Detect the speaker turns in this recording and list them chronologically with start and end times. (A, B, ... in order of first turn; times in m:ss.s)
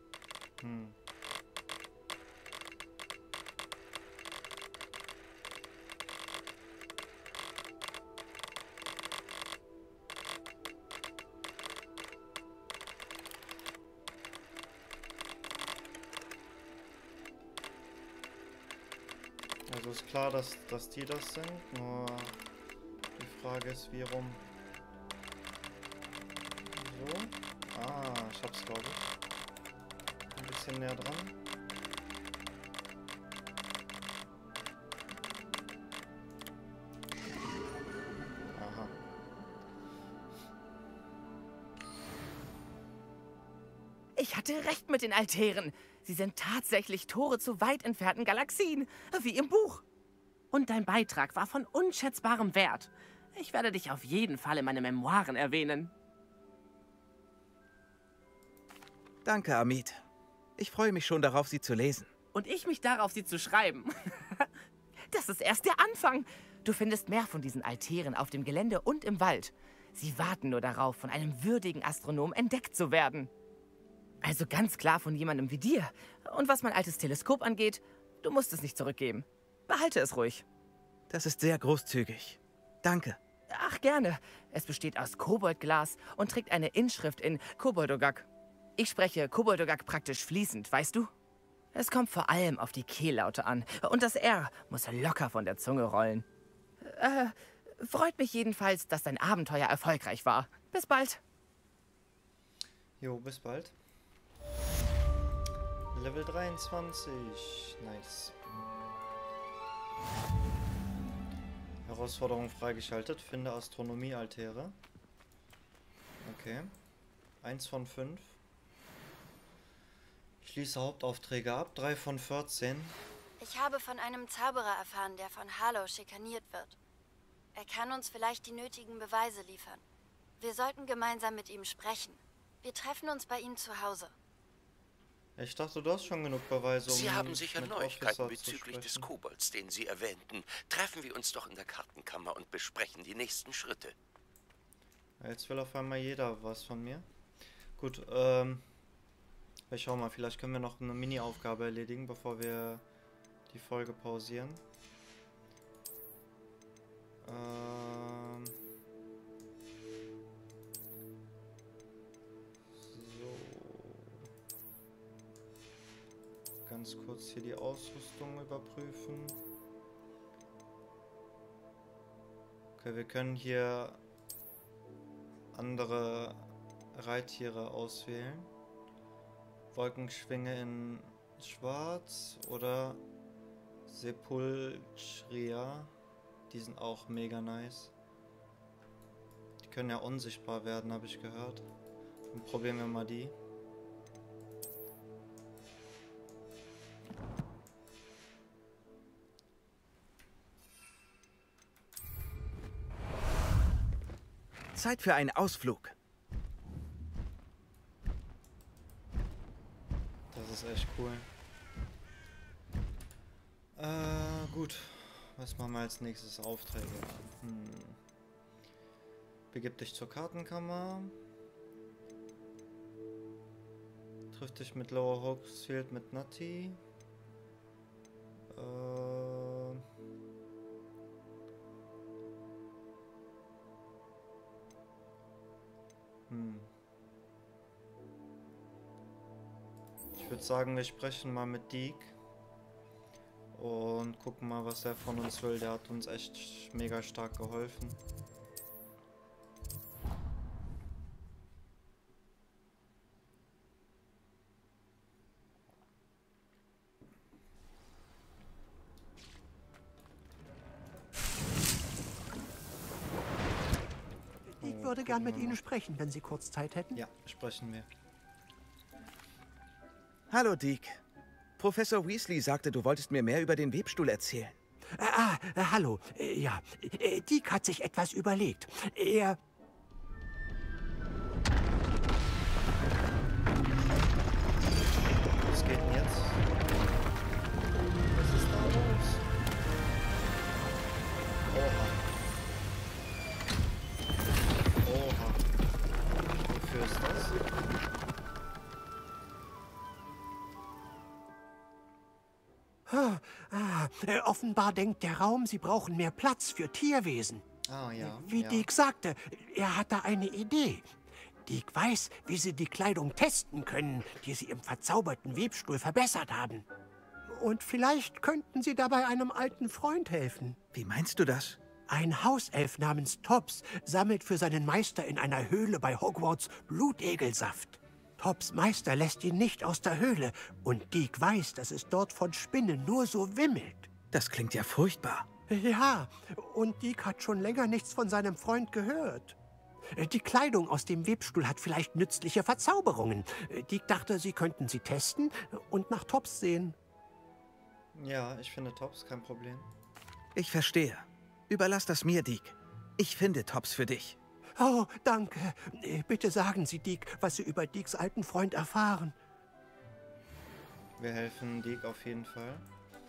0:00.6-0:00.9 A
0:19.7-0:22.4 A
0:23.2-0:24.4 A
0:26.7-0:29.0 A
0:30.3-0:31.4 A
0:38.5-0:38.9 A
0:44.2-0:49.8 B
0:50.5-0:55.9 B
0:59.2-1:00.0 C
1:00.6-1:02.1 C
1:02.3-1:04.5 B
1:05.1-1:13.3 B
1:14.2-1:20.4 B
1:21.1-1:23.2 C
1:23.5-1:28.2 B
1:28.8-1:31.1 B
1:31.7-1:36.2 B
1:36.8-1:41.2 B
1:43.0-1:43.7 A
1:45.9-1:48.4 A
1:51.8-1:54.8 A
1:56.2-1:56.7 A
1:57.4-1:58.4 A
2:00.4-2:03.0 A
2:03.4-2:06.8 D
2:07.5-2:09.8 D
2:10.4-2:14.1 D
2:15.4-2:19.1 A
2:16.8-2:23.9 E
2:25.2-2:27.0 A
2:27.8-2:28.6 A
2:29.7-2:32.8 A
2:33.5-2:34.6 A
2:37.2-2:38.5 A
2:42.7-2:44.1 A
2:46.6-2:49.4 A
2:52.8-2:54.0 A
2:55.5-2:58.5 A
2:59.7-3:03.0 A
3:03.9-3:05.9 A
3:06.5-3:07.9 A
3:09.6-3:11.7 A
3:12.3-3:13.3 A
3:24.7-3:25.9 C
3:30.3-3:31.3 A
3:33.8-3:38.0 A
3:39.5-3:41.2 A
3:44.3-3:46.8 A
3:48.5-3:49.8 A
3:56.3-3:56.7 A
4:00.1-4:02.2 A
4:03.5-4:08.0 A
4:24.6-4:27.0 F
4:24.6-4:25.6 A
4:26.9-4:27.9 A
4:30.3-4:31.0 C
4:31.6-4:34.6 C
4:35.0-4:39.4 F
4:45.4-4:46.4 A
4:48.1-4:49.3 A
4:51.5-4:52.0 A
4:54.8-4:55.4 A
4:56.4-4:57.4 A
5:02.9-5:07.4 F
5:07.6-5:08.7 A
5:08.0-5:10.9 F
5:11.4-5:16.6 F
5:17.3-5:20.6 F
5:20.7-5:21.6 C
5:21.9-5:33.9 F
5:34.1-5:35.3 C
5:35.5-5:39.4 F
5:40.0-5:46.7 F
5:47.9-5:49.7 A
5:50.3-5:54.2 C
5:54.6-5:59.1 F
6:01.0-6:02.6 A